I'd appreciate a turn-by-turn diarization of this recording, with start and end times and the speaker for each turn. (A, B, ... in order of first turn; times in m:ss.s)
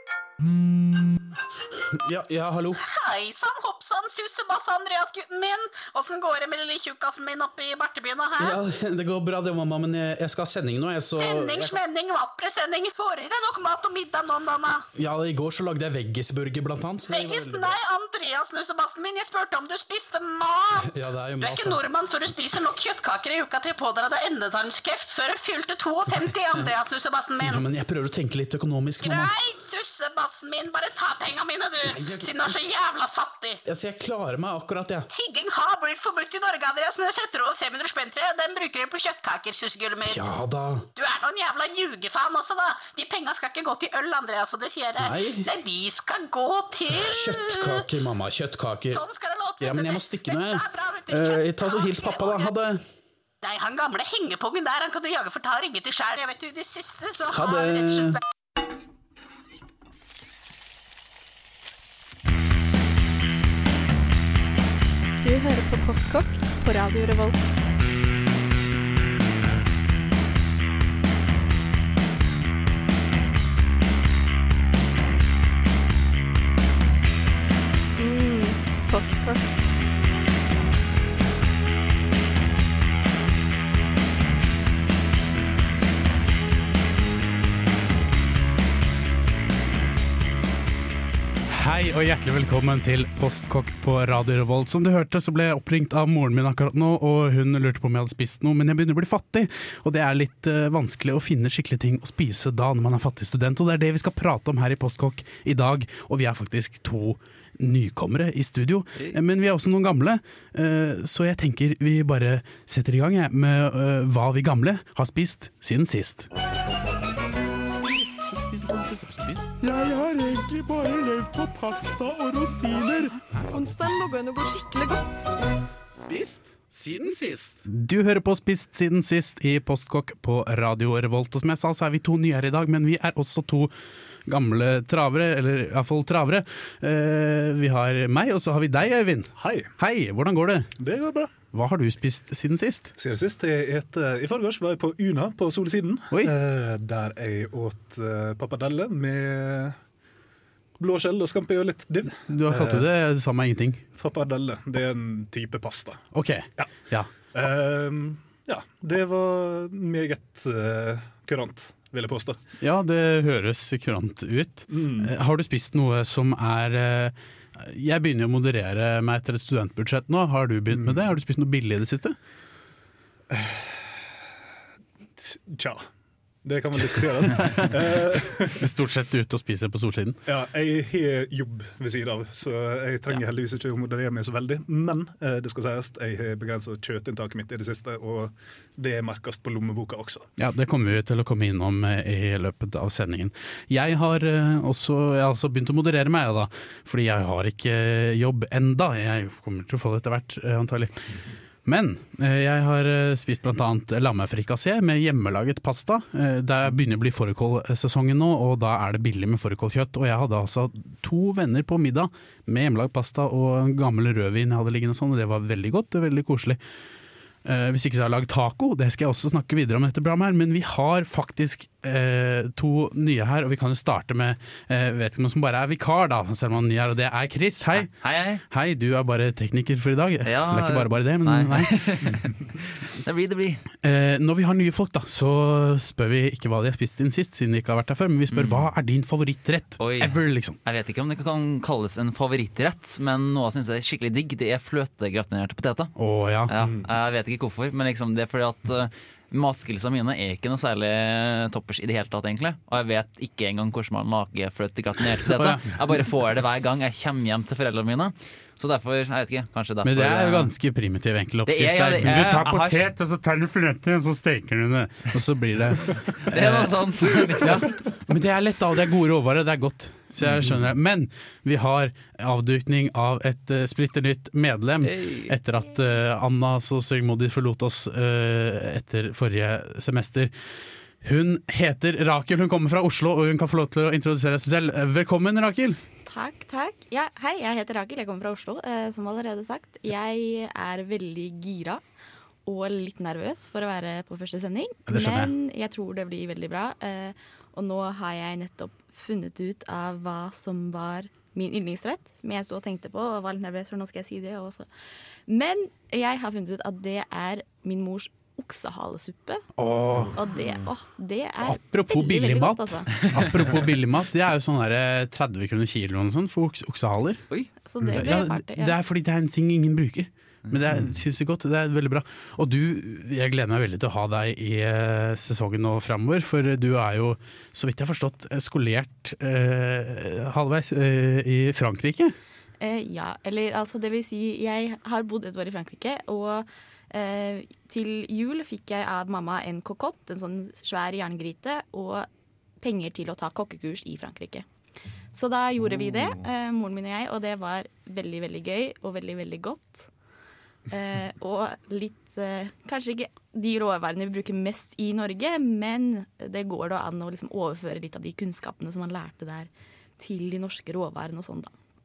0:01.9-0:02.8 A
0:02.8-0:08.6 B
0:08.4-0:11.8 A
0:11.2-0:14.8 B
0:14.9-0:17.8 A
0:17.0-0:27.6 B
0:20.8-0:21.8 A
0:27.4-0:29.3 A
0:29.0-0:33.6 B
0:31.8-0:32.6 A
0:33.6-0:35.1 A
0:35.1-0:40.3 B
0:40.0-0:40.9 A
0:40.9-0:47.9 B
0:45.0-0:45.5 A
0:46.9-0:49.0 A
0:48.9-0:52.5 B
0:49.6-0:52.8 A
0:53.4-0:58.2 B
0:57.3-0:58.2 A
1:05.2-1:07.4 C
1:18.0-1:19.4 C
1:31.5-1:56.3 A
1:57.8-2:03.2 A
2:03.4-2:05.3 C
2:06.0-2:13.7 A
2:14.2-2:20.7 A
2:19.4-2:19.7 D
2:20.8-2:21.3 D
2:21.5-2:22.9 A
2:23.0-2:29.8 D
2:30.8-2:32.9 D
2:32.3-2:33.8 A
2:34.0-2:36.0 D
2:36.1-2:37.1 A
2:37.3-2:42.4 D
2:42.6-2:52.2 A
2:44.7-2:45.1 D
2:50.7-2:51.0 D
2:53.3-2:54.1 D
2:55.2-2:55.8 D
2:56.4-2:58.7 D
2:57.2-2:57.7 A
2:58.5-3:00.2 A
3:00.2-3:10.3 D
3:10.4-3:36.6 A
3:37.4-3:51.9 A
3:47.8-3:48.4 E
3:50.2-3:53.6 E
3:53.8-4:00.6 A
3:58.3-3:58.6 E
3:59.8-4:05.9 E
4:06.0-4:06.5 A
4:06.5-4:20.5 E
4:06.6-4:06.8 D
4:15.2-4:15.6 A
4:19.8-4:40.3 A
4:21.4-4:22.9 E
4:26.1-4:27.8 E
4:34.8-4:35.3 E
4:41.0-4:45.8 A
4:46.0-4:51.8 F
4:52.4-5:04.7 F
4:54.9-4:55.3 A
5:05.3-5:09.5 F
5:09.6-5:10.2 A
5:10.1-5:12.9 F
5:11.4-5:17.2 A
5:17.6-5:18.8 F
5:17.9-5:32.1 A
5:32.6-5:42.1 F
5:42.6-5:44.4 F
5:45.1-5:49.9 F
5:50.7-6:01.5 F